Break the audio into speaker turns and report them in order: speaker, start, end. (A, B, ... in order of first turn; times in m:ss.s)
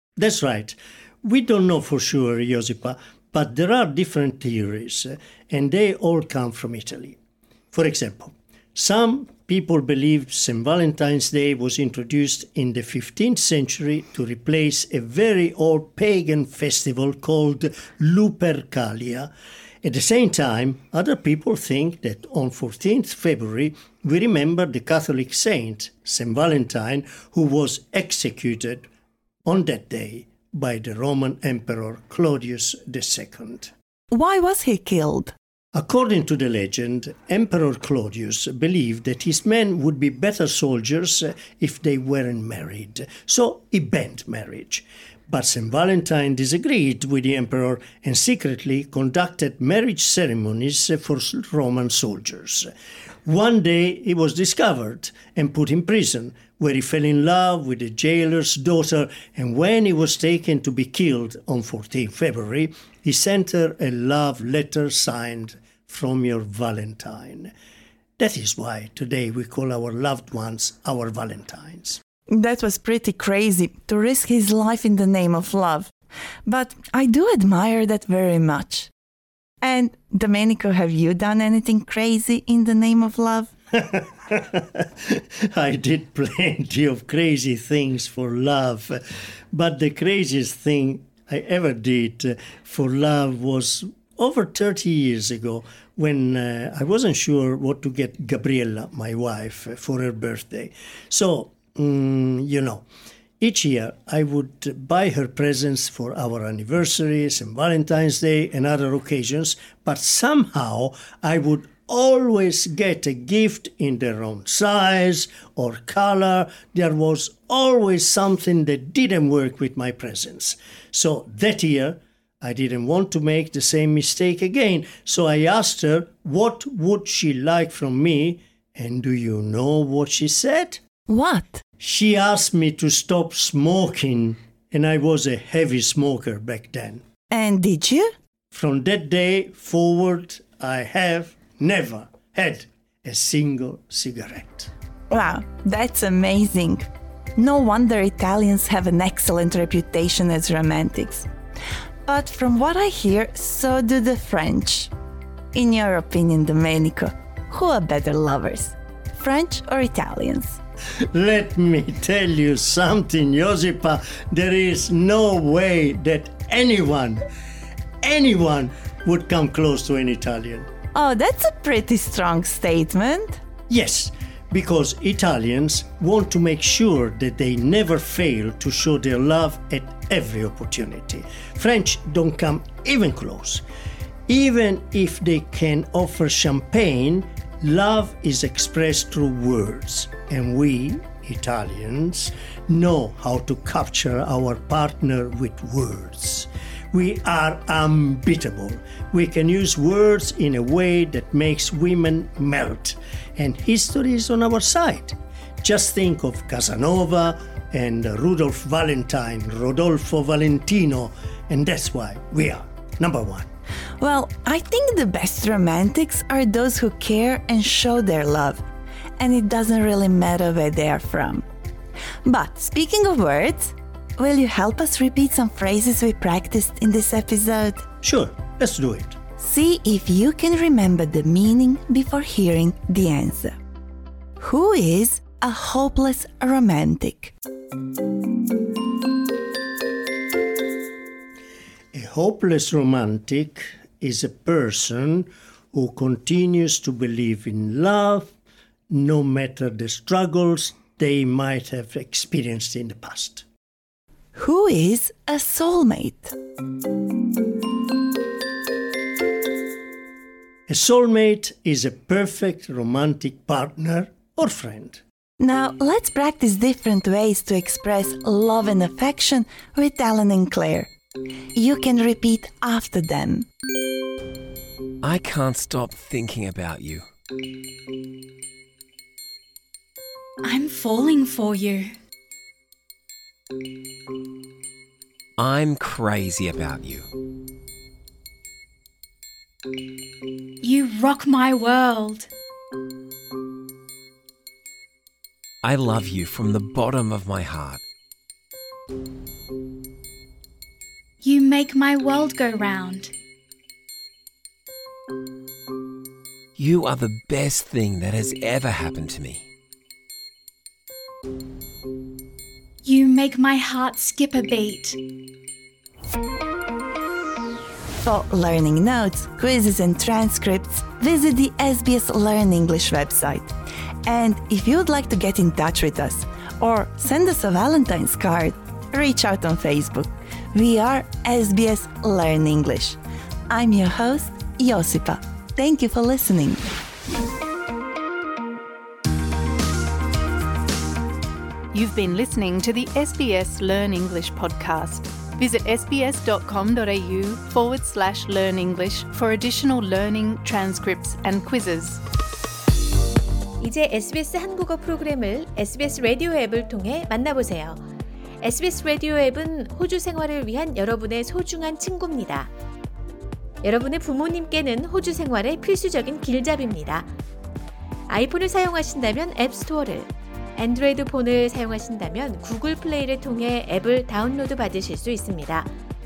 0:00.2-0:07.2 A
0:07.7-0:19.3 A
0:19.8-0:28.9 A
0:29.4-0:33.7 A
0:34.1-0:35.3 B
0:35.7-0:52.7 A
0:53.2-1:07.5 A
1:08.2-1:12.0 A
1:12.3-1:15.9 B
1:16.4-1:18.9 B
1:19.6-1:23.5 B
1:23.9-1:24.8 A
1:25.5-1:29.0 A
1:29.5-1:42.8 A
1:43.4-2:10.8 A
2:11.1-2:11.6 B
2:11.8-2:17.0 A
2:17.3-2:18.1 B
2:18.5-2:24.7 A
2:25.1-2:31.3 B
2:32.0-2:34.9 B
2:35.5-2:40.6 B
2:41.1-2:47.2 A
2:48.0-2:50.7 A
2:50.9-2:53.4 B
2:53.7-3:03.6 A
3:04.3-3:33.5 A
3:34.0-3:38.6 B
3:39.2-3:41.4 B
3:42.2-3:47.8 B
3:48.0-3:49.2 A
3:49.4-3:53.5 B
3:54.4-3:57.3 B
4:01.9-4:08.3 A
4:08.9-4:13.4 A
4:14.3-4:16.3 B
4:20.7-4:25.0 A
4:25.4-4:30.9 B
4:31.6-4:33.5 B
4:35.0-4:37.1 C
4:40.4-4:41.9 D
4:45.4-4:47.1 C
4:50.6-4:52.3 D
4:55.6-4:57.8 C
5:01.2-5:03.1 D
5:06.6-5:09.4 C
5:12.8-5:15.0 D
5:18.0-5:23.5 B
5:24.1-5:33.0 B
5:33.5-5:36.6 B
5:41.7-5:52.0 E
5:53.6-5:57.8 F
5:58.4-6:02.5 F
6:03.6-6:07.1 F
6:08.1-6:15.7 F